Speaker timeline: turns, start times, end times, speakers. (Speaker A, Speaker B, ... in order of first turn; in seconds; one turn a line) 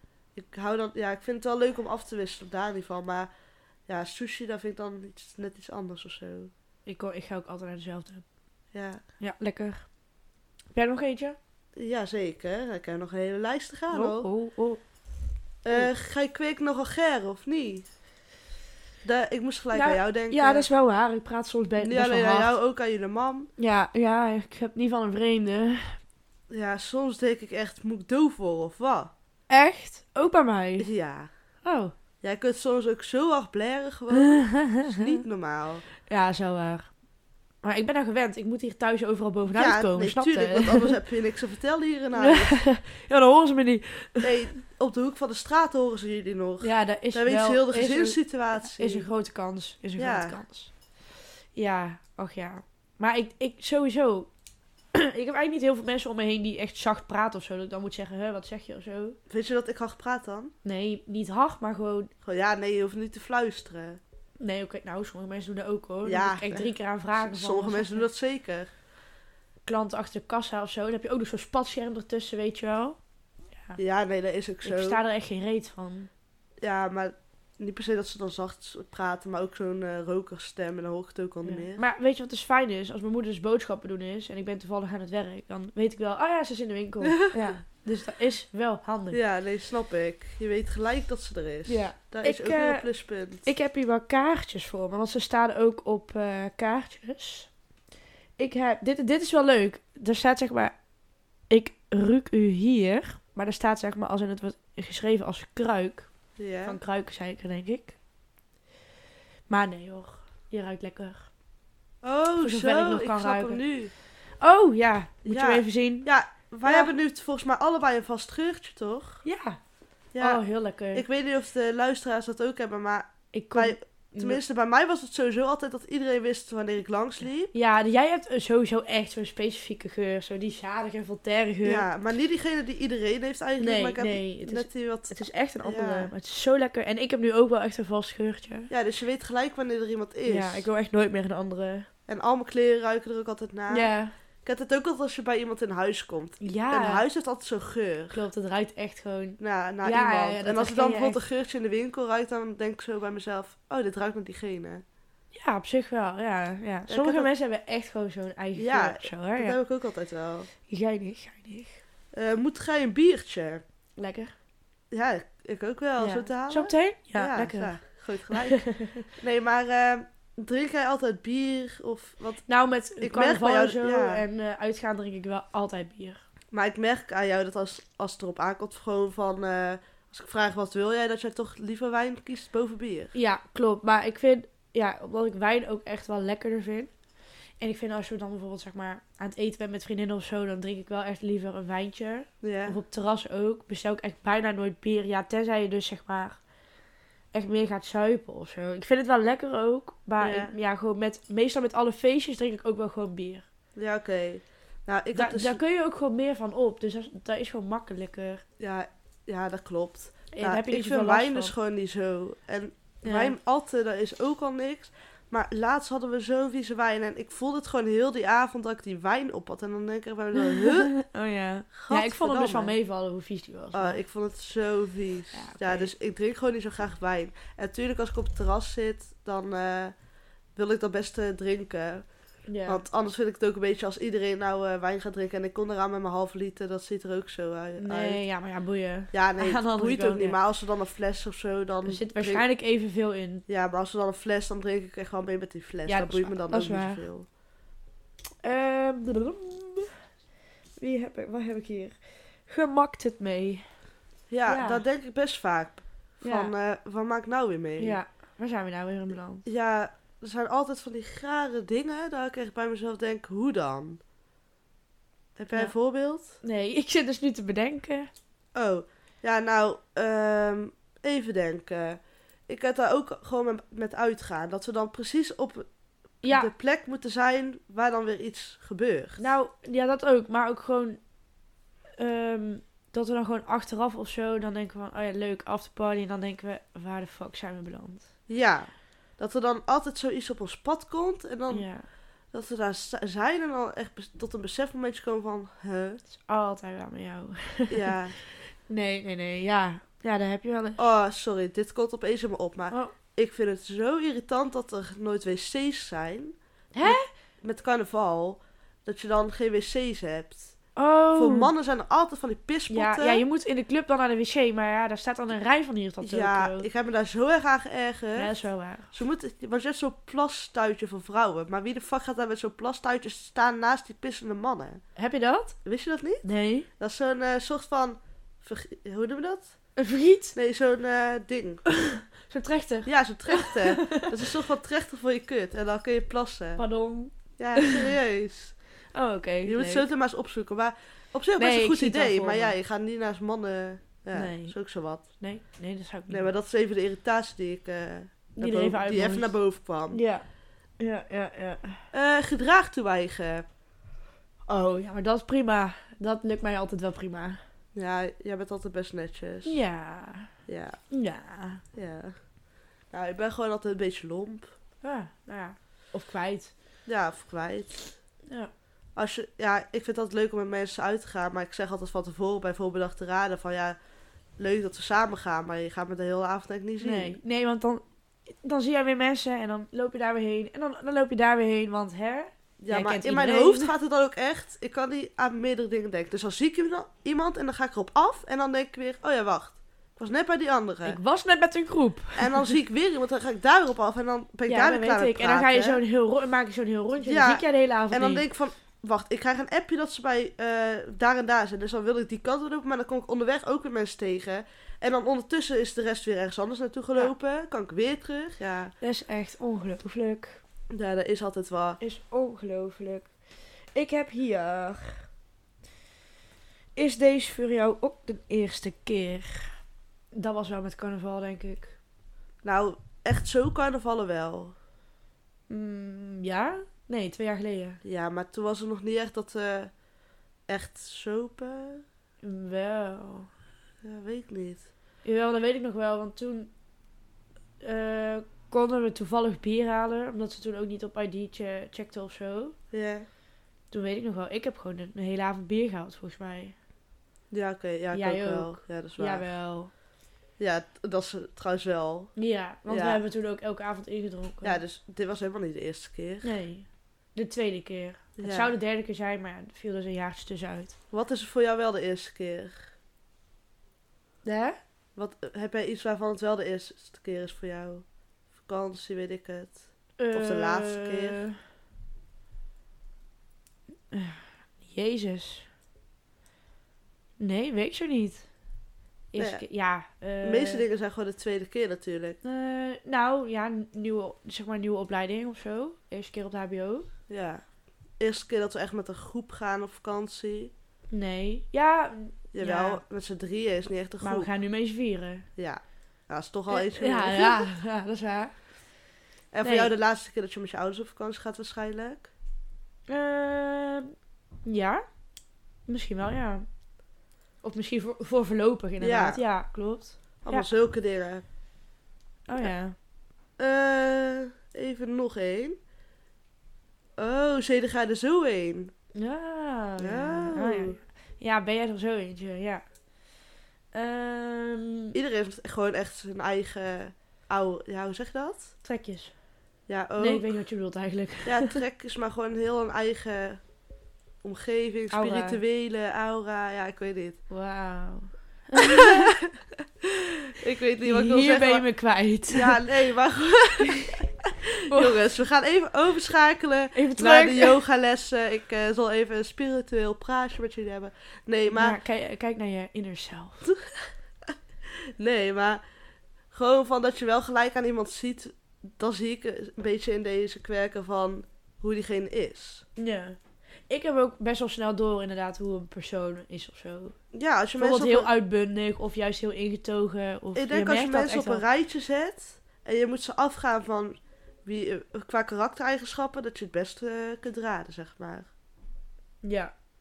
Speaker A: 0.3-3.3
Speaker A: 3.9-6.5
Speaker B: 6.8-8.2
Speaker A: 8.7-9.0
Speaker B: 9.2-9.8
Speaker B: 10.7-11.4
Speaker A: 11.8-14.3
Speaker B: 13.9-14.8
Speaker A: 15.6-17.9
Speaker A: 19.0-20.7
Speaker B: 19.7-22.5
Speaker A: 21.8-23.5
Speaker B: 23.6-26.0
Speaker A: 26.5-29.1
Speaker B: 29.5-30.9
Speaker A: 30.8-31.3
Speaker B: 31.6-31.9
Speaker A: 32.2-35.8
Speaker B: 34.1-35.2
Speaker B: 36.0-36.9
Speaker B: 37.6-40.9
Speaker A: 39.5-42.6
Speaker B: 42.1-44.5
Speaker A: 44.2-49.1
Speaker B: 46.6-50.7
Speaker A: 50.0-50.4
Speaker B: 51.5-54.3
Speaker B: 54.9-59.2
Speaker A: 59.3-60.5
Speaker B: 60.6-62.1
Speaker A: 62.2-64.0
Speaker B: 64.4-68.1
Speaker A: 66.0-68.7
Speaker B: 69.7-73.0
Speaker A: 73.8-75.0
Speaker B: 74.6-76.1
Speaker A: 76.6-81.8
Speaker B: 81.4-89.2
Speaker A: 87.0-87.3
Speaker A: 89.1-93.4
Speaker B: 91.7-92.9
Speaker B: 93.4-97.5
Speaker B: 98.4-100.7
Speaker B: 101.5-106.1
Speaker A: 106.4-106.8
Speaker B: 106.6-108.0
Speaker B: 109.5-111.3
Speaker A: 112.0-113.9
Speaker B: 112.4-113.6
Speaker B: 114.4-116.1
Speaker A: 115.2-119.2
Speaker B: 116.7-116.9
Speaker B: 119.2-119.6
Speaker A: 120.1-120.4
Speaker B: 120.2-121.0
Speaker A: 120.9-127.5
Speaker B: 123.3-124.4
Speaker B: 127.5-131.9
Speaker A: 131.6-136.1
Speaker B: 133.6-138.7
Speaker A: 138.7-140.7
Speaker B: 140.2-141.9
Speaker A: 142.1-143.9
Speaker B: 143.7-144.1
Speaker A: 144.4-148.2
Speaker B: 146.4-147.0
Speaker B: 148.1-151.2
Speaker A: 149.4-154.8
Speaker B: 155.3-159.6
Speaker A: 156.9-157.3
Speaker A: 158.6-160.5
Speaker B: 160.7-161.8
Speaker A: 162.1-163.6
Speaker B: 164.0-164.3
Speaker A: 164.9-172.4
Speaker B: 166.0-167.7
Speaker B: 168.3-169.0
Speaker B: 172.5-176.2
Speaker A: 173.0-174.2
Speaker A: 176.5-183.1
Speaker B: 183.1-186.9
Speaker B: 187.6-196.4
Speaker A: 192.4-192.8
Speaker B: 197.3-203.4
Speaker A: 200.2-200.5
Speaker A: 203.8-205.6
Speaker B: 205.1-208.4
Speaker A: 208.6-220.9
Speaker B: 210.3-211.5
Speaker B: 213.0-213.3
Speaker B: 220.3-224.0
Speaker A: 221.7-222.7
Speaker A: 223.7-229.9
Speaker B: 225.3-225.9
Speaker A: 230.6-232.1
Speaker B: 232.5-232.8
Speaker A: 232.7-238.2
Speaker B: 237.8-240.4
Speaker A: 239.1-242.4
Speaker B: 241.8-243.4
Speaker A: 243.5-247.2
Speaker B: 245.9-247.0
Speaker B: 248.4-249.9
Speaker B: 250.8-251.9
Speaker B: 252.5-253.7
Speaker A: 254.3-258.0
Speaker B: 254.4-254.8
Speaker B: 256.2-256.5
Speaker B: 257.8-259.4
Speaker A: 259.4-264.0
Speaker A: 265.4-266.4
Speaker B: 266.4-268.1
Speaker A: 268.5-275.7
Speaker B: 276.2-276.5
Speaker A: 276.3-279.2
Speaker B: 279.2-281.0
Speaker B: 282.0-288.1
Speaker A: 288.3-291.6
Speaker B: 291.5-291.8
Speaker A: 292.3-296.0
Speaker B: 296.1-297.9
Speaker A: 297.7-298.1
Speaker B: 298.7-300.8
Speaker A: 300.8-310.5
Speaker B: 306.7-307.1
Speaker B: 310.8-311.5
Speaker A: 311.1-313.2
Speaker B: 312.7-316.6
Speaker A: 316.0-318.3
Speaker B: 318.1-318.9
Speaker A: 318.9-324.8
Speaker B: 324.9-325.6
Speaker A: 325.6-326.2
Speaker B: 326.2-326.7
Speaker A: 326.8-329.5
Speaker B: 329.8-330.3
Speaker A: 330.3-331.6
Speaker B: 331.8-334.1
Speaker A: 332.9-336.6
Speaker B: 336.6-337.9
Speaker A: 337.4-338.5
Speaker B: 338.9-339.9
Speaker A: 339.4-345.0
Speaker B: 341.4-342.6
Speaker B: 344.1-346.3
Speaker A: 346.1-350.0
Speaker B: 348.4-349.3
Speaker B: 349.9-350.2
Speaker B: 350.8-351.8
Speaker A: 351.9-353.4
Speaker B: 354.5-357.4
Speaker A: 357.7-359.6
Speaker B: 359.4-360.3
Speaker A: 360.5-360.8
Speaker B: 360.9-361.6
Speaker A: 361.7-362.1
Speaker A: 362.9-364.5
Speaker B: 364.8-366.5
Speaker A: 366.9-367.9
Speaker A: 368.9-373.8
Speaker A: 374.4-377.1
Speaker B: 376.8-383.7
Speaker A: 382.6-391.0
Speaker B: 390.8-392.5
Speaker A: 392.1-395.8
Speaker B: 394.4-398.2
Speaker A: 397.0-408.7
Speaker B: 408.8-410.4
Speaker A: 410.7-411.8
Speaker B: 411.8-413.1
Speaker B: 413.7-415.0
Speaker B: 416.8-419.5
Speaker B: 420.1-421.8
Speaker A: 422.4-424.5
Speaker B: 425.5-427.8
Speaker A: 427.8-429.7
Speaker A: 430.5-431.8
Speaker B: 432.2-433.3
Speaker A: 433.8-434.7
Speaker B: 435.0-436.5
Speaker B: 437.6-442.6
Speaker A: 442.7-443.1
Speaker B: 443.7-446.5
Speaker A: 447.3-449.2
Speaker B: 447.9-449.7
Speaker A: 450.4-452.1
Speaker B: 452.1-454.6
Speaker A: 452.7-453.0
Speaker A: 454.4-456.3
Speaker B: 456.2-460.7
Speaker A: 458.2-458.5
Speaker A: 460.9-462.7
Speaker B: 464.2-464.6
Speaker A: 464.9-467.8
Speaker A: 468.4-471.2
Speaker B: 470.0-471.4
Speaker B: 473.9-475.5
Speaker B: 477.2-478.2
Speaker B: 479.1-480.6
Speaker A: 479.2-479.4
Speaker A: 480.2-482.2
Speaker B: 482.2-486.9
Speaker A: 487.1-487.4
Speaker A: 488.0-490.5
Speaker B: 490.9-492.8
Speaker A: 492.3-494.3
Speaker B: 494.0-495.2
Speaker A: 495.4-497.5
Speaker B: 496.5-498.3
Speaker A: 499.3-502.1
Speaker B: 499.4-499.7
Speaker B: 502.9-503.9
Speaker B: 504.4-504.8
Speaker B: 505.7-506.4
Speaker B: 507.4-510.5
Speaker A: 508.8-509.2
Speaker A: 510.2-511.2
Speaker B: 512.3-512.7
Speaker A: 513.4-515.6
Speaker A: 517.0-518.7
Speaker B: 518.9-522.6
Speaker A: 519.8-520.8
Speaker B: 523.7-525.0
Speaker A: 524.9-528.5
Speaker B: 528.6-529.1
Speaker A: 529.7-530.3
Speaker B: 530.0-531.6
Speaker A: 531.2-533.4
Speaker A: 534.2-537.2
Speaker B: 534.9-535.4
Speaker B: 537.3-539.2
Speaker A: 538.6-539.3
Speaker A: 540.3-541.6
Speaker B: 540.8-542.6
Speaker A: 542.3-551.8
Speaker B: 543.6-544.1
Speaker B: 544.7-545.0
Speaker B: 546.7-547.6
Speaker B: 551.5-553.5
Speaker A: 554.8-555.6
Speaker A: 556.3-562.6
Speaker B: 562.8-563.2
Speaker B: 563.7-566.9
Speaker A: 567.1-568.1
Speaker B: 567.6-571.4
Speaker A: 570.3-578.3
Speaker B: 579.2-579.5